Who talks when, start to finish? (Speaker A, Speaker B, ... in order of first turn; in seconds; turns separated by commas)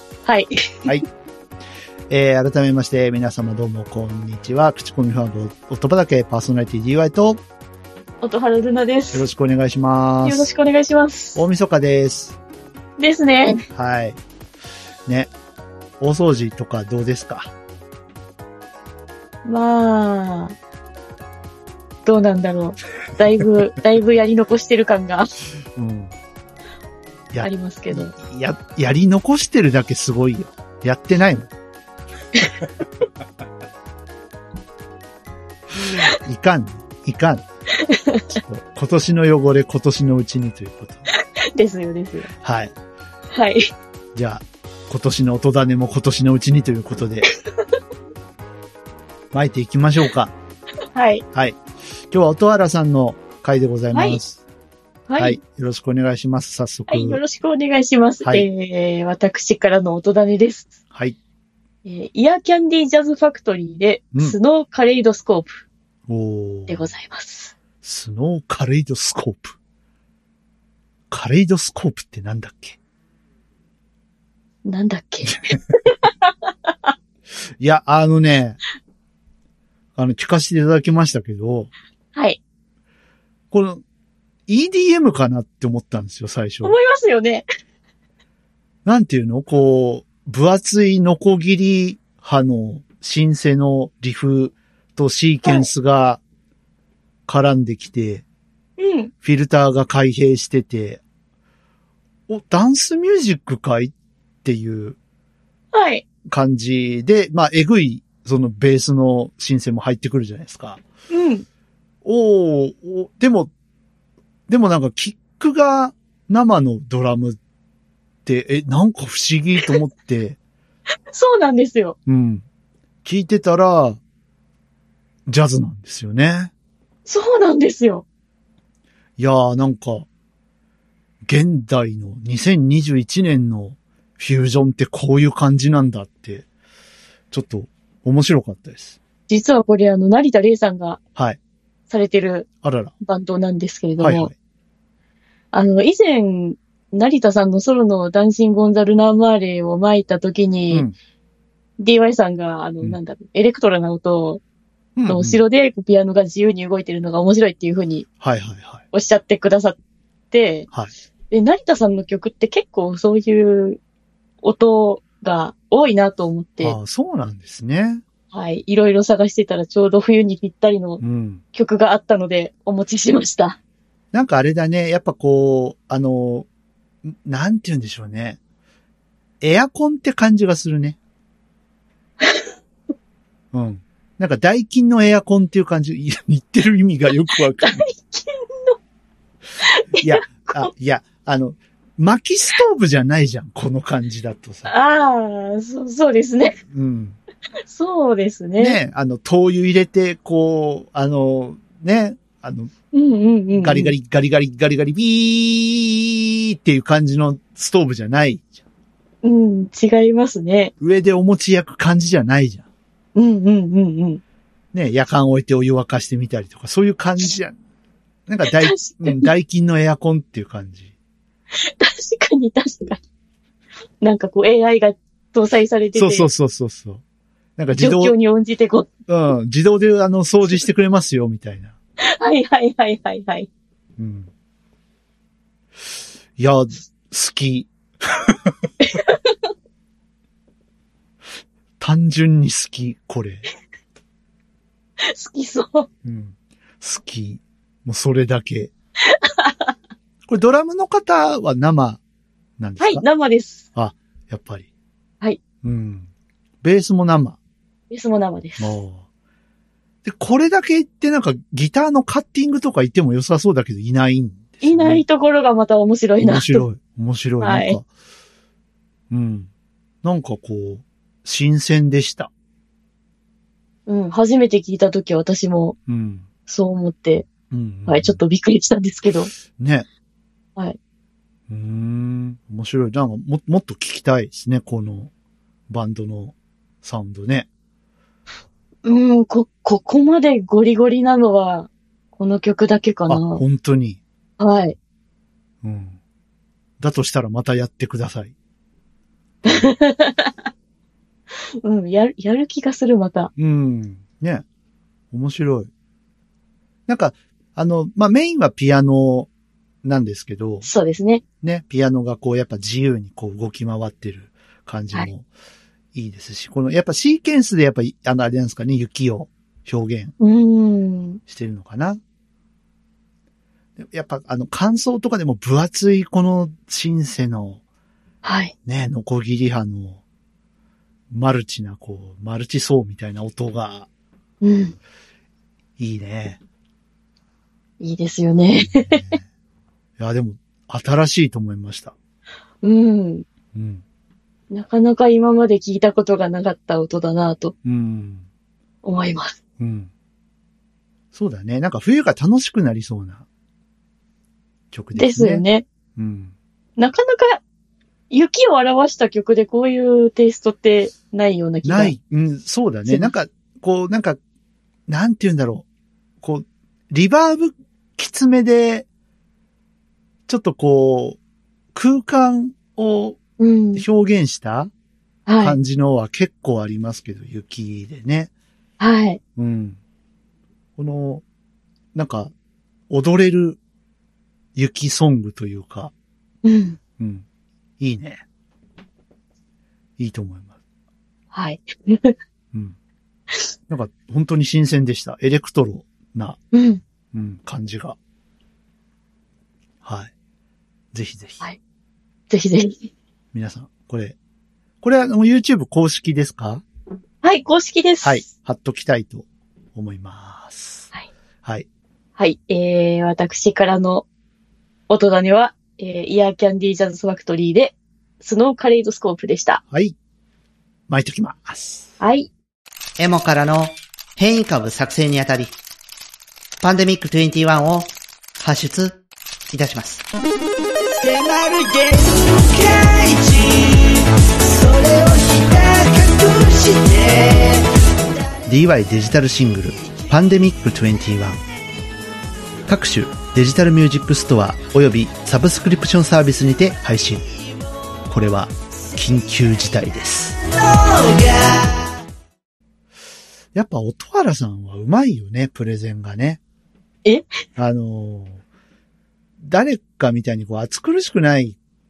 Speaker A: 0.2-0.9, Speaker B: 2.1-7.4, Speaker A: 8.2-9.3, Speaker B: 9.1-10.5, Speaker A: 10.2-11.4, Speaker B: 11.3-12.4, Speaker A: 13.0-13.6, Speaker B: 13.7-14.2, Speaker B: 15.1-15.3, Speaker B: 16.0-17.5, Speaker A: 19.4-20.6, Speaker A: 22.0-25.3, Speaker B: 25.8-26.1, Speaker B: 27.3-31.5, Speaker A: 27.4-28.1, Speaker B: 35.9-37.4, Speaker A: 37.8-38.4, Speaker B: 38.4-41.0, Speaker A: 41.5-42.3, Speaker B: 42.4-42.7, Speaker A: 43.3-43.7, Speaker B: 44.1-47.2, Speaker B: 49.3-50.3, Speaker A: 50.9-51.2, Speaker B: 52.1-54.4, Speaker A: 53.9-54.2, Speaker A: 55.1-55.4, Speaker B: 55.2-57.2, Speaker A: 56.9-60.7, Speaker A: 61.8-65.6, Speaker B: 66.1-66.9, Speaker A: 66.7-67.5, Speaker B: 67.8-69.5, Speaker B: 71.1-72.8, Speaker A: 74.6-76.9, Speaker B: 77.6-78.6, Speaker B: 80.0-81.7, Speaker A: 82.1-82.4, Speaker B: 83.5-83.8, Speaker B: 84.5-86.8, Speaker A: 86.6-87.4, Speaker B: 88.8-96.2, Speaker A: 95.4-95.7, Speaker B: 97.3-98.2, Speaker A: 98.8-99.1, Speaker B: 99.2-101.0, Speaker B: 102.3-103.9, Speaker B: 104.4-105.0, Speaker A: 105.7-106.0, Speaker B: 106.2-110.8, Speaker A: 111.1-111.4, Speaker B: 112.0-113.5, Speaker B: 114.5-117.4, Speaker B: 118.2-120.4, Speaker A: 121.1-122.0, Speaker B: 122.0-122.4, Speaker B: 123.0-124.0, Speaker B: 125.3-126.5, Speaker A: 127.0-128.0, Speaker B: 129.2-130.1, Speaker B: 131.2-136.4, Speaker B: 137.3-139.0, Speaker A: 139.3-141.0, Speaker A: 141.9-142.4, Speaker B: 142.6-142.9, Speaker A: 143.0-144.3, Speaker B: 144.0-144.3, Speaker A: 145.5-150.8, Speaker A: 151.8-154.4, Speaker B: 154.9-155.4, Speaker A: 155.1-158.1, Speaker B: 158.2-158.8, Speaker A: 158.9-159.8, Speaker A: 160.3-160.7, Speaker A: 161.3-163.8, Speaker A: 164.4-166.8, Speaker B: 166.6-168.0, Speaker A: 168.3-171.0, Speaker B: 171.0-171.4, Speaker A: 171.5-173.6, Speaker B: 174.1-176.5, Speaker B: 177.0-178.4, Speaker B: 179.4-181.0, Speaker B: 183.5-187.8, Speaker A: 187.5-188.8, Speaker A: 189.6-190.7, Speaker B: 190.0-194.7, Speaker A: 194.7-196.6, Speaker B: 196.7-197.2, Speaker A: 197.6-198.8, Speaker B: 198.6-202.7, Speaker A: 202.9-203.9, Speaker B: 203.6-208.5, Speaker A: 209.2-210.7, Speaker B: 210.8-212.7, Speaker A: 213.1-214.2, Speaker B: 214.7-217.6, Speaker B: 218.3-220.9, Speaker A: 218.4-219.3, Speaker A: 221.5-223.0, Speaker A: 224.0-226.3, Speaker B: 225.9-227.0, Speaker B: 227.6-228.1, Speaker A: 227.8-228.9, Speaker B: 229.1-231.7, Speaker A: 232.0-233.5, Speaker B: 234.0-234.3, Speaker B: 236.4-238.5, Speaker A: 238.8-239.3, Speaker B: 241.8-243.4, Speaker A: 245.0-245.9, Speaker B: 246.0-248.7, Speaker A: 249.1-249.7, Speaker B: 250.2-252.0, Speaker B: 252.6-253.0, Speaker A: 252.8-253.6, Speaker B: 253.7-254.7, Speaker B: 255.6-256.1, Speaker B: 256.6-257.4, Speaker A: 257.9-258.8, Speaker B: 258.6-259.0, Speaker B: 260.0-265.0, Speaker A: 264.6-266.6, Speaker B: 266.2-267.9, Speaker A: 267.4-267.8, Speaker B: 269.1-269.5, Speaker B: 270.0-272.3, Speaker A: 273.9-275.8, Speaker B: 275.9-276.3, Speaker A: 276.5-277.3, Speaker B: 277.5-278.2, Speaker A: 277.9-279.3, Speaker B: 279.6-279.9, Speaker B: 281.5-285.1, Speaker B: 285.7-287.5, Speaker A: 288.8-293.4, Speaker B: 293.1-294.0, Speaker A: 294.4-294.8, Speaker B: 295.6-296.0, Speaker B: 296.8-298.3, Speaker A: 299.4-300.4, Speaker A: 301.6-303.3, Speaker B: 303.4-304.4, Speaker B: 305.1-305.7, Speaker B: 306.9-309.3, Speaker B: 309.8-310.7, Speaker A: 310.6-311.2, Speaker B: 311.4-315.2, Speaker B: 315.9-320.1, Speaker A: 320.2-321.2, Speaker B: 321.3-322.0, Speaker B: 323.8-327.6, Speaker A: 328.2-328.5, Speaker B: 328.6-330.0, Speaker B: 331.1-333.9, Speaker A: 334.4-334.7, Speaker B: 335.8-336.4, Speaker A: 337.8-339.0, Speaker B: 338.6-339.2, Speaker B: 340.0-341.9, Speaker A: 342.6-343.2, Speaker B: 343.5-343.8, Speaker A: 344.5-347.5, Speaker B: 347.6-348.2, Speaker A: 348.8-349.4, Speaker B: 349.6-349.9, Speaker B: 351.1-353.2, Speaker B: 354.7-355.4, Speaker A: 354.9-355.6, Speaker B: 355.9-356.3, Speaker A: 356.8-357.4, Speaker A: 358.1-361.9, Speaker B: 361.6-364.2, Speaker A: 362.9-363.1, Speaker B: 364.9-365.6, Speaker B: 366.2-368.9, Speaker B: 370.3-371.2, Speaker B: 371.7-373.2, Speaker A: 373.4-373.8, Speaker B: 373.7-374.7, Speaker A: 375.3-375.6, Speaker B: 375.4-378.3, Speaker A: 378.8-379.2, Speaker B: 379.4-379.8, Speaker B: 380.8-381.2, Speaker B: 381.9-382.3, Speaker B: 382.9-383.6, Speaker B: 384.5-385.9, Speaker A: 386.4-386.8, Speaker B: 387.0-387.2, Speaker B: 387.8-388.2, Speaker B: 390.0-390.5, Speaker A: 391.3-392.1, Speaker B: 393.7-396.4, Speaker A: 396.5-396.8, Speaker B: 397.1-398.0, Speaker B: 399.8-400.1, Speaker B: 400.9-401.4, Speaker A: 402.3-402.9, Speaker B: 403.3-404.1, Speaker B: 404.8-406.6, Speaker A: 407.2-408.2, Speaker B: 408.0-410.9, Speaker A: 412.2-414.1, Speaker A: 414.9-419.6, Speaker B: 419.7-419.9, Speaker B: 420.9-421.9, Speaker A: 422.0-422.3, Speaker C: 423.0-425.6, Speaker C: 426.6-429.0, Speaker C: 429.5-430.0, Speaker C: 431.0-437.8, Speaker B: 438.4-441.4, Speaker B: 442.7-447.2, Speaker B: 448.1-450.4, Speaker C: 450.5-451.8, Speaker B: 453.5-456.4, Speaker B: 457.6-458.4, Speaker B: 459.4-461.6